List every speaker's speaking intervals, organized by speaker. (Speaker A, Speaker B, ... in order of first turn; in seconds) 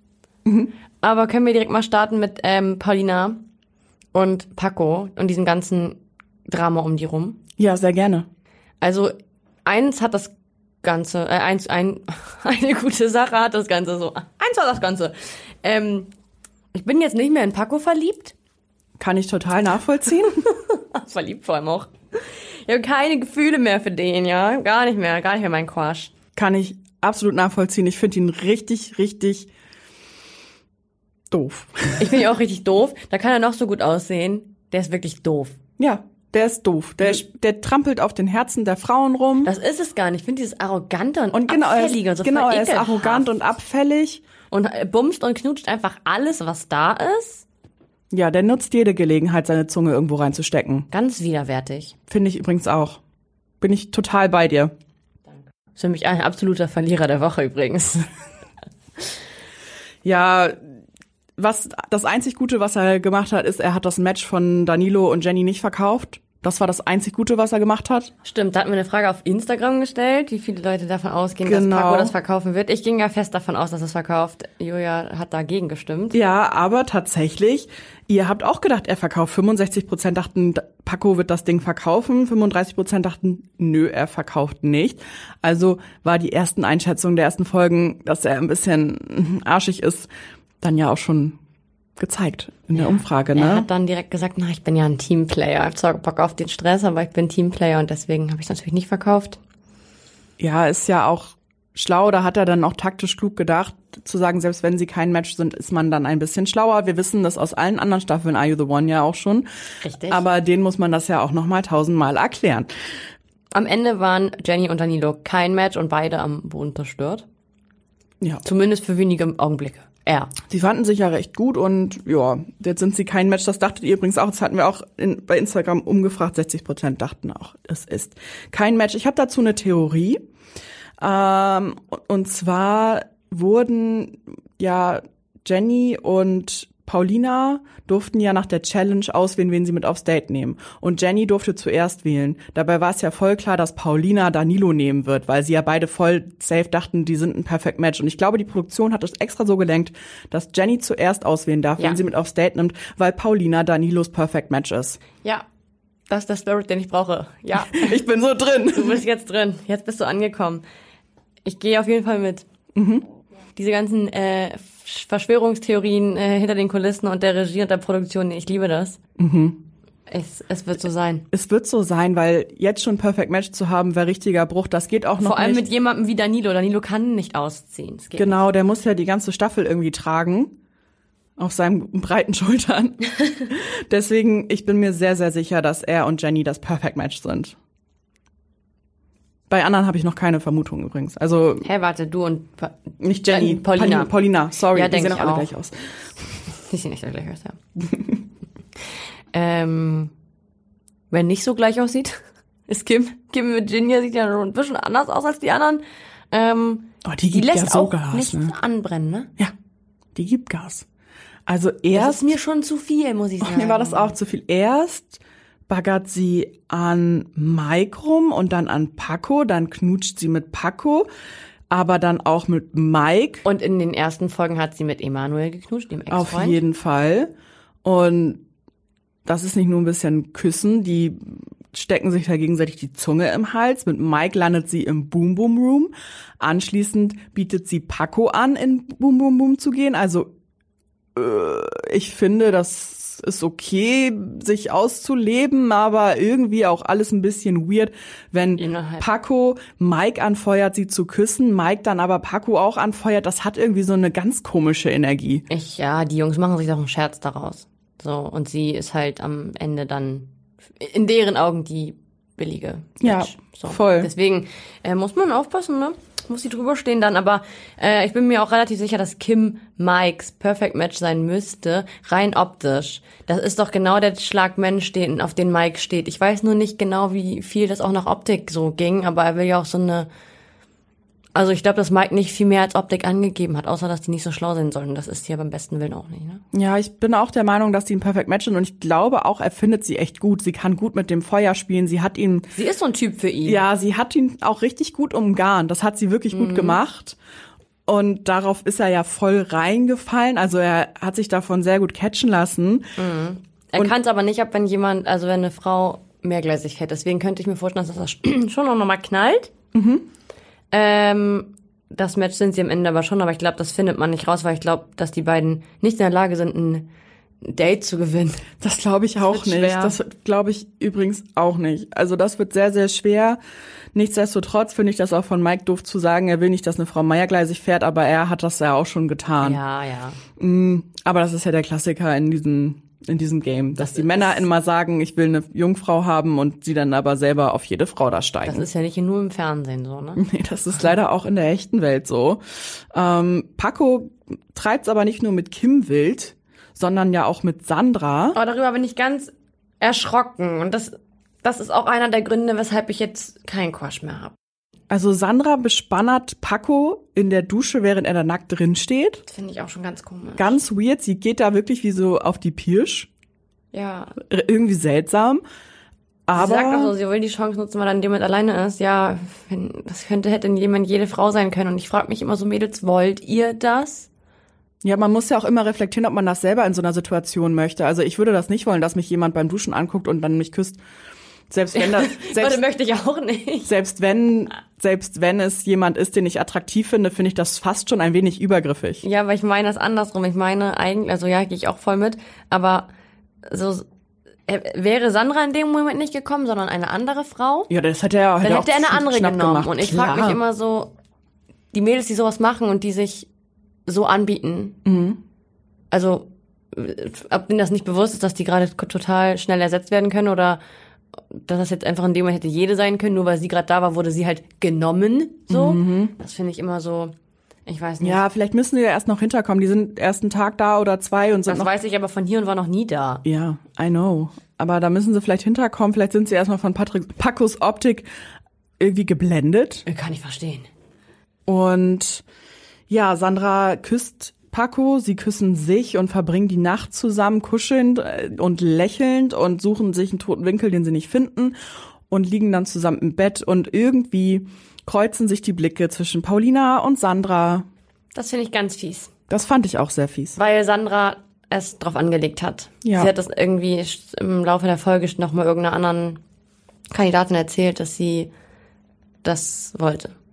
Speaker A: 0.4-0.7, 7.6-8.2, 19.0-20.4, 26.4-29.5, 31.3-32.2, 35.8-39.5, 41.3-44.2, 48.1-50.9, 52.1-53.0, 53.6-54.7, 60.0-60.7, 61.4-68.1, 71.4-72.1, 76.1-90.1, 90.6-91.4, 92.0-93.7, 100.4-109.5, 110.1-112.7, 120.5-130.2, 131.0-155.0, 157.6-159.0, 162.7-163.0, 169.2-169.6, 171.3-175.6, 178.2-180.5, 181.4-187.6, 189.5-191.7, 193.0-196.0, 207.0-208.5, 210.1-210.8, 211.4-212.3, 213.4-221.1, 221.7-223.4, 226.1-227.3, 227.8-228.4, 229.2-240.3, 241.1-255.4, 263.0-264.1, 286.5-292.5, 293.4-297.2, 297.9-302.9, 309.7-310.0, 318.6-323.4, 323.9-329.6, 330.4-338.6, 340.2-342.4, 342.9-348.4, 354.9-359.2, 360.4-363.1, 364.2-365.4, 366.3-366.9, 374.8-380.8, 381.5-382.6, 383.6-389.0, 397.7-400.4, 404.8-405.2, 415.5-416.1, 418.0-421.7, 423.2-428.1, 428.8-429.8, 431.4-432.2, 432.9-441.5, 442.1-447.7, 449.3-450.4, 452.8-453.1
Speaker B: 1.0-3.4, 4.1-7.4, 8.8-9.1, 9.6-16.1, 16.7-18.3, 20.4-26.1, 32.0-35.6, 39.4-43.3, 44.5-47.5, 50.9-51.9, 55.8-58.1, 68.2-76.2, 92.7-99.4, 109.8-110.2, 113.5-117.2, 118.4-120.3, 156.1-158.0, 158.7-160.6, 161.4-162.4, 163.6-169.0, 170.1-171.2, 175.2-178.4, 191.6-194.1, 194.7-195.5, 196.5-197.6, 199.3-200.1, 201.1-209.3, 211.9-214.2, 223.4-226.6, 248.6-249.1, 255.5-280.1, 281.3-286.4, 292.5-293.6, 296.3-296.8, 303.0-309.5, 310.7-316.9, 317.4-318.5, 319.2-320.0, 329.4-330.2, 333.8-334.4, 338.4-340.2, 348.3-354.3, 359.3-360.6, 363.7-364.2, 366.3-374.1, 381.7-383.7, 389.0-392.9, 393.4-393.9, 394.5-397.7, 398.4-400.9, 401.7-403.3, 403.9-404.8, 405.9-410.6, 411.3-417.1, 417.6-418.2, 421.5-423.2, 429.9-430.7, 448.1-449.1, 450.4-456.2, 456.9-458.3, 459.2-460.1